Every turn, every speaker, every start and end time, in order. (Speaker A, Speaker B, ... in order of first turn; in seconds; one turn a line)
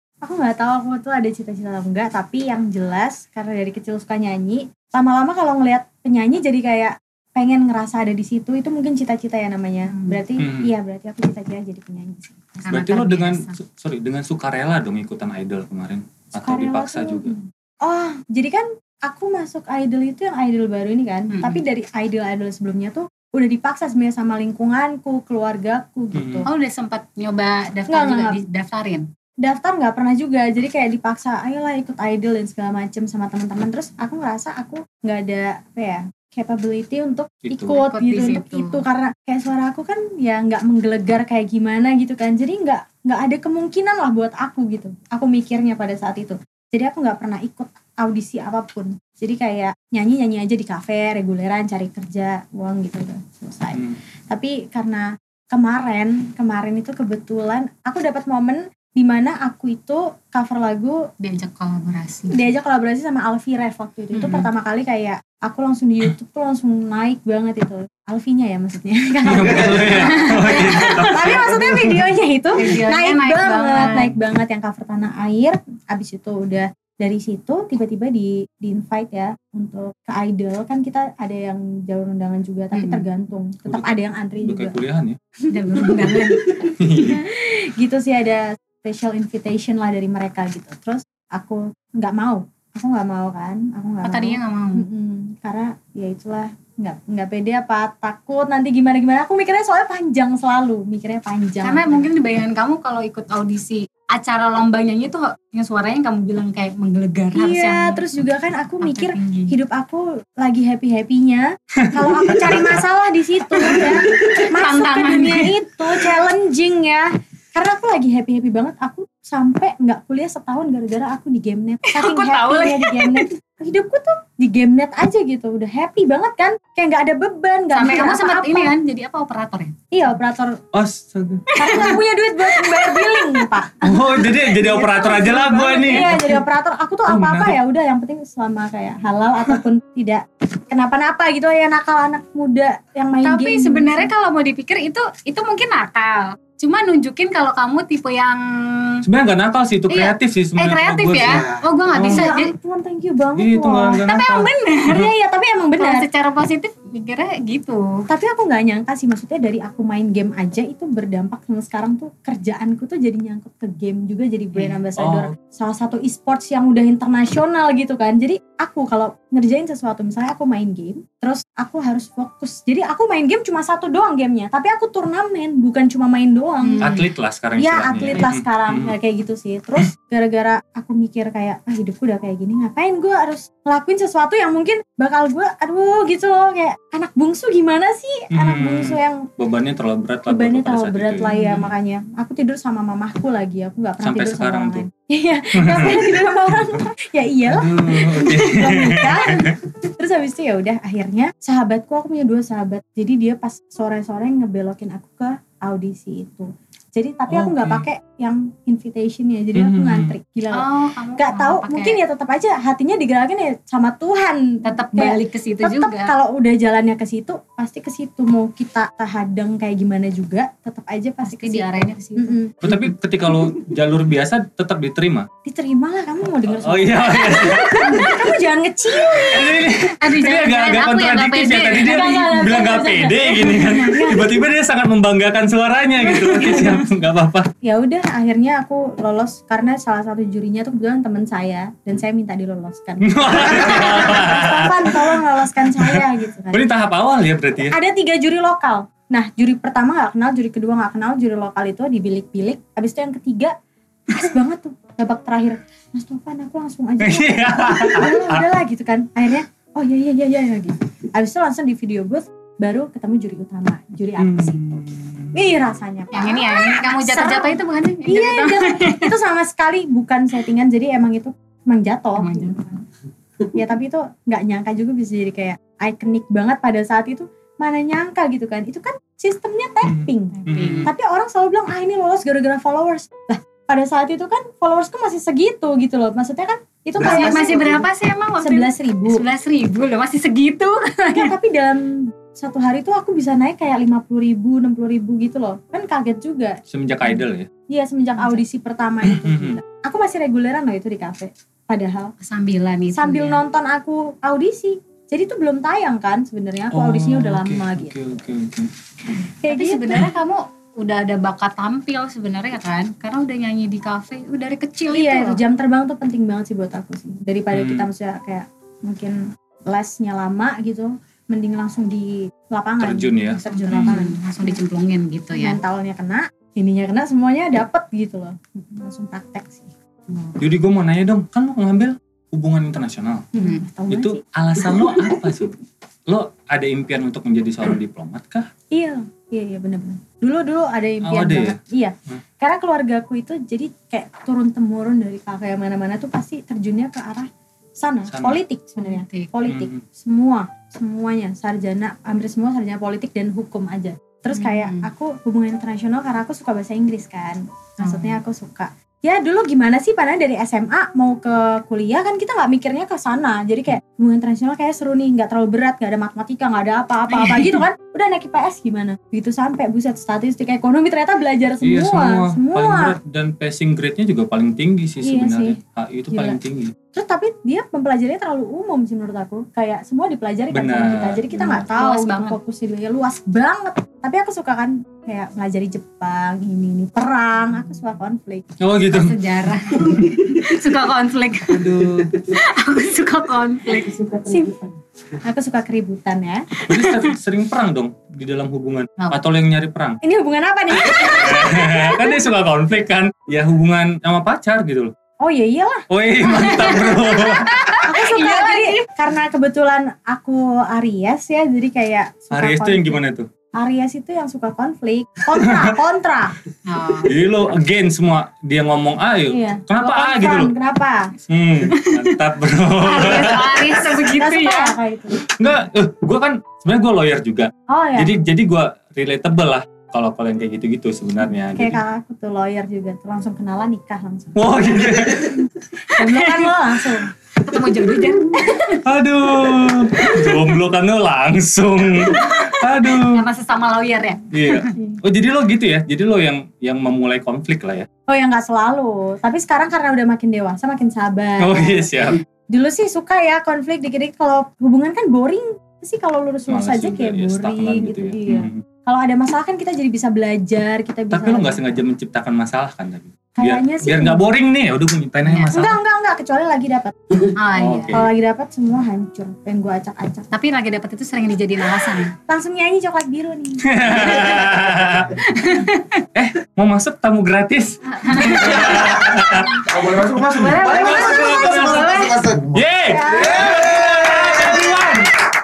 Speaker A: 0.2-12.6
Speaker B: 9.9-10.2
Speaker C: 10.4-10.7
Speaker B: 12.6-13.6
Speaker C: 12.7-17.3
Speaker A: 16.4-26.5
Speaker B: 21.3-21.6
Speaker C: 26.2-26.5
Speaker B: 26.5-29.1
Speaker A: 27.9-28.4
Speaker A: 29.4-61.0
Speaker C: 37.5-37.8
Speaker B: 37.7-38.8
Speaker B: 61.2-62.5
Speaker A: 62.3-84.8
Speaker B: 64.1-64.5
Speaker C: 69.3-72.0
Speaker B: 70.0-71.3
Speaker B: 72.5-74.1
Speaker B: 82.7-83.0
Speaker C: 83.7-85.2
Speaker A: 85.5-102.1
Speaker B: 85.5-86.7
Speaker C: 86.7-87.2
Speaker B: 94.0-94.9
Speaker B: 101.6-108.0
Speaker A: 107.3-128.7
Speaker B: 108.8-109.5
Speaker C: 111.8-112.7
Speaker B: 113.6-115.7
Speaker B: 121.9-123.3
Speaker B: 127.8-129.8
Speaker A: 129.9-130.6
Speaker C: 130.7-131.6
Speaker B: 131.5-133.5
Speaker A: 131.6-144.1
Speaker C: 133.8-136.4
Speaker B: 135.8-136.2
Speaker C: 137.1-137.6
Speaker B: 143.2-149.1
Speaker C: 149.0-152.3
Speaker B: 149.9-152.5
Speaker A: 152.0-154.0
Speaker C: 153.4-154.5
Speaker B: 154.0-155.1
Speaker A: 154.9-156.1
Speaker B: 155.8-158.1
Speaker A: 158.1-176.9
Speaker C: 165.0-165.3
Speaker B: 176.6-177.1
Speaker C: 176.8-178.9
Speaker A: 177.6-189.3
Speaker C: 188.3-191.6
Speaker A: 190.3-222.6
Speaker B: 191.3-191.7
Speaker C: 194.0-194.9
Speaker C: 195.6-196.2
Speaker C: 197.5-199.5
Speaker C: 207.3-207.8
Speaker C: 209.6-210.1
Speaker B: 210.5-212.0
Speaker B: 214.7-216.1
Speaker B: 221.2-222.4
Speaker C: 222.6-225.3
Speaker A: 225.5-229.7
Speaker C: 226.4-228.2
Speaker C: 229.2-237.5
Speaker B: 230.0-232.4
Speaker A: 231.8-234.4
Speaker A: 236.1-236.7
Speaker A: 237.6-246.7
Speaker C: 243.0-247.8
Speaker A: 247.7-253.5
Speaker A: 254.1-264.8
Speaker C: 257.0-258.4
Speaker C: 264.2-265.3
Speaker A: 265.3-272.8
Speaker B: 266.1-269.1
Speaker B: 272.2-272.6
Speaker A: 273.4-287.9
Speaker C: 279.9-280.9
Speaker B: 280.4-280.9
Speaker B: 287.0-291.3
Speaker A: 288.4-289.2
Speaker A: 291.1-296.6
Speaker C: 296.7-297.5
Speaker A: 297.7-302.1
Speaker C: 299.0-299.6
Speaker B: 302.2-303.4
Speaker A: 302.9-308.0
Speaker C: 306.7-308.7
Speaker A: 309.2-310.1
Speaker B: 309.5-315.4
Speaker A: 314.9-324.6
Speaker C: 317.5-317.9
Speaker C: 322.8-324.0
Speaker B: 323.5-325.6
Speaker A: 325.3-329.7
Speaker C: 330.4-333.3
Speaker A: 333.3-334.2
Speaker B: 333.4-333.6
Speaker C: 333.9-335.6
Speaker C: 336.1-338.5
Speaker A: 338.7-373.0
Speaker C: 341.0-341.6
Speaker C: 348.1-348.4
Speaker B: 348.8-349.3
Speaker C: 349.4-349.8
Speaker B: 354.3-354.9
Speaker B: 357.8-358.2
Speaker B: 367.1-367.6
Speaker C: 371.6-376.7
Speaker A: 375.0-375.6
Speaker A: 376.1-376.4
Speaker A: 376.9-388.5
Speaker C: 380.5-381.6
Speaker B: 381.5-382.4
Speaker C: 388.6-389.2
Speaker B: 388.9-394.2
Speaker C: 391.5-392.2
Speaker A: 394.1-394.6
Speaker A: 395.1-396.5
Speaker C: 396.7-400.0
Speaker B: 396.7-397.1
Speaker A: 400.0-402.2
Speaker C: 400.8-404.9
Speaker A: 405.2-405.9
Speaker C: 405.9-407.6
Speaker B: 406.2-408.8
Speaker A: 407.8-413.0
Speaker C: 412.3-413.3
Speaker A: 413.6-416.4
Speaker C: 415.4-415.7
Speaker B: 416.7-417.1
Speaker C: 417.1-420.5
Speaker A: 419.3-421.1
Speaker C: 421.3-423.9
Speaker B: 421.7-422.1
Speaker B: 422.8-424.8
Speaker A: 424.1-425.3
Speaker C: 425.3-431.8
Speaker A: 427.7-428.2
Speaker A: 431.6-434.5
Speaker C: 434.4-435.5
Speaker A: 435.1-435.4
Speaker A: 435.9-437.1
Speaker B: 435.9-436.5
Speaker B: 437.4-438.8
Speaker C: 438.8-443.2
Speaker B: 440.0-440.4
Speaker B: 442.0-444.7
Speaker C: 444.3-447.9
Speaker A: 448.1-451.9
Speaker C: 451.4-452.2
Speaker A: 452.5-461.8
Speaker C: 456.5-458.6
Speaker C: 461.1-465.8
Speaker A: 463.4-464.2
Speaker B: 465.3-465.6
Speaker A: 465.5-467.4
Speaker B: 467.4-468.1
Speaker C: 467.5-468.1
Speaker A: 467.9-470.3
Speaker B: 470.3-472.1
Speaker A: 472.3-474.4
Speaker C: 473.7-475.2
Speaker B: 474.0-474.4
Speaker B: 475.2-476.0
Speaker C: 476.1-479.6
Speaker B: 477.9-479.6
Speaker D: 479.6-484.9
Speaker B: 480.3-482.2
Speaker C: 480.4-485.2
Speaker A: 482.9-483.5